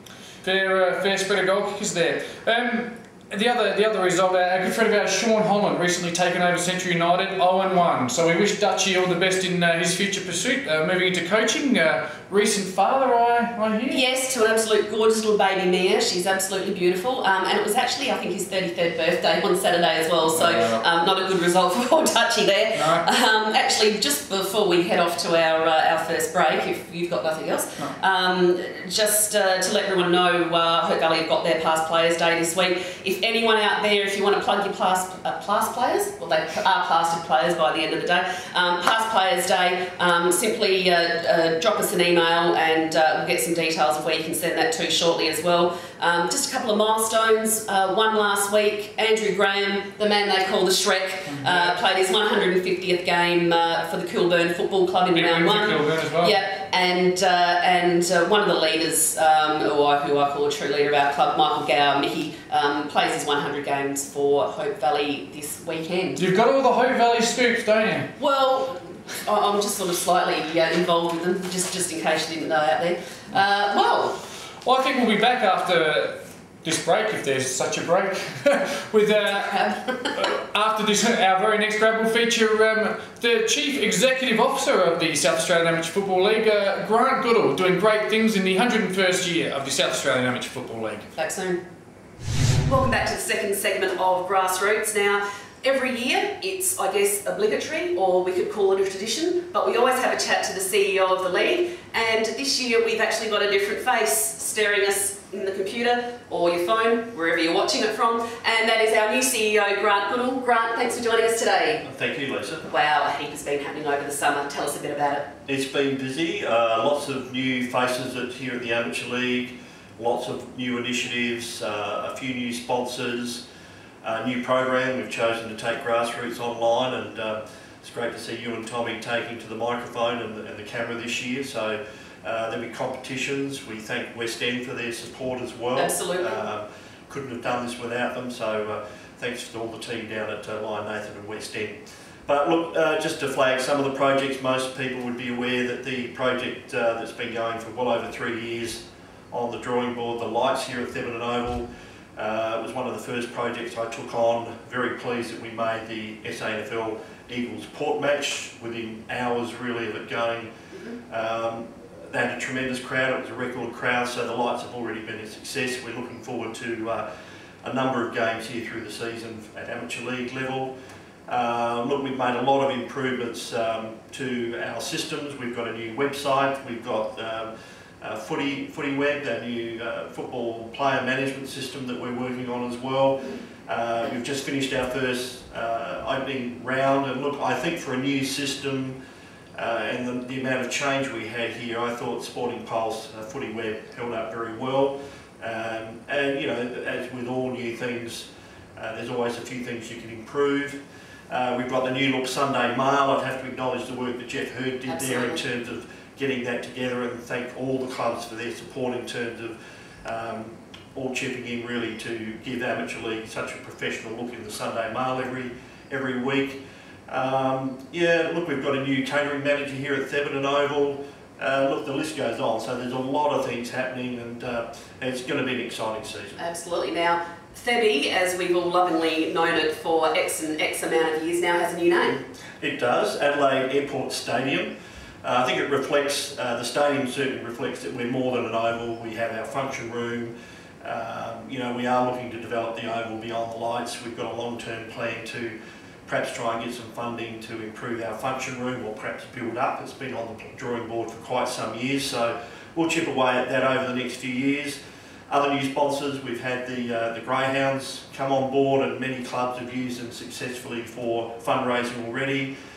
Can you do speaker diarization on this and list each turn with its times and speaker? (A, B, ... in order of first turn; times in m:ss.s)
0:00.4-0:14.0 A
0:13.9-1:06.2 B
0:20.3-0:20.8 A
0:22.8-0:23.1 A
0:51.3-0:51.8 A
0:55.1-0:56.4 A
1:06.2-1:08.1 A
1:08.2-1:14.2 B
1:14.6-1:19.6 A
1:19.1-1:20.3 B
1:20.1-1:31.1 A
1:31.2-1:31.6 B
1:32.6-1:51.8 B
1:51.8-1:52.7 C
1:52.7-1:55.3 B
1:55.5-2:03.4 C
2:04.0-2:40.5 C
2:15.8-2:16.4 B
2:40.7-2:41.0 B
2:41.1-2:47.1 C
2:47.6-2:50.7 C
2:51.3-3:09.0 C
3:09.6-3:46.4 C
3:24.9-3:25.4 B
3:46.4-3:52.2 B
3:52.6-4:14.8 C
4:15.3-4:22.5 C